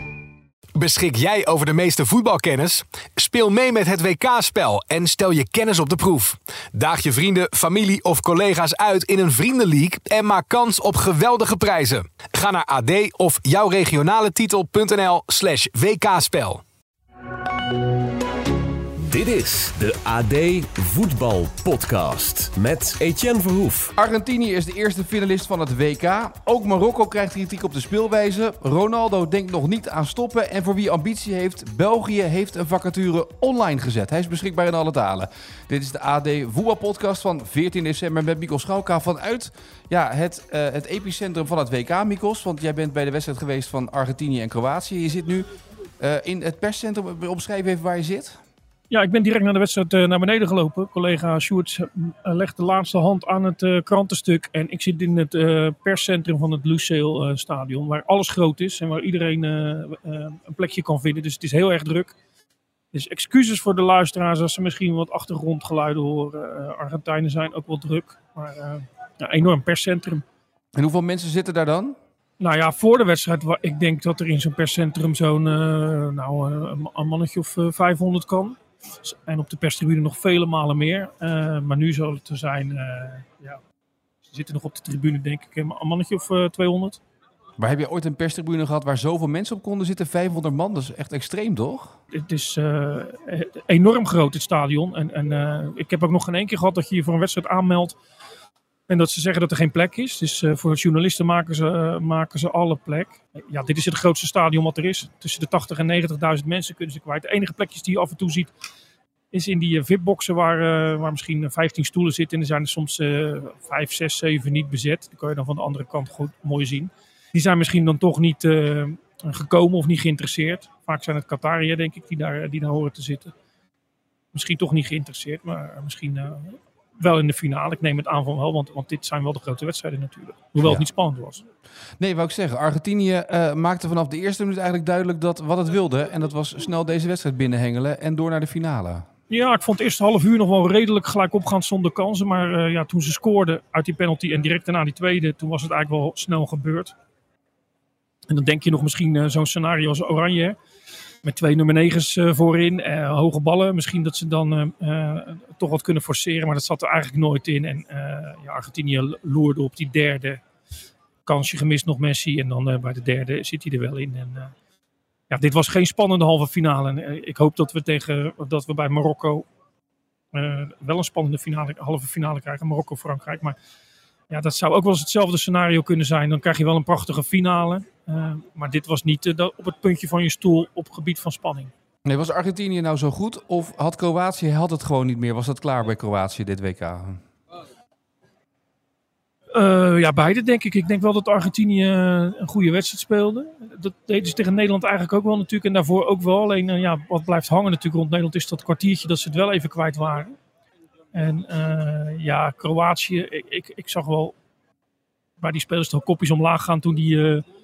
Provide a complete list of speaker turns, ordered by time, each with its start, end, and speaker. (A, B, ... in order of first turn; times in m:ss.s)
0:00.8-0:16.6 A
0:19.0-0:23.9 B
0:24.0-0:48.4 C
0:48.9-1:02.2 D
1:02.9-1:10.2 D
1:10.8-1:12.0 C
1:12.4-1:23.6 D
1:24.3-1:27.0 D
1:27.6-1:32.0 C
1:32.1-1:38.0 D
1:38.9-1:48.5 D
1:49.3-2:03.3 D
2:04.3-2:11.4 D
2:12.0-2:19.1 C
2:19.3-2:26.9 D
2:28.3-2:30.6 D
2:31.2-2:40.4 D
2:41.2-2:44.5 D
2:45.3-2:49.5 D
2:50.3-2:53.6 D
2:54.3-3:01.7 D
3:02.0-3:07.2 C
3:09.5-3:20.4 D
3:21.1-3:24.4 D
3:25.4-3:27.4 D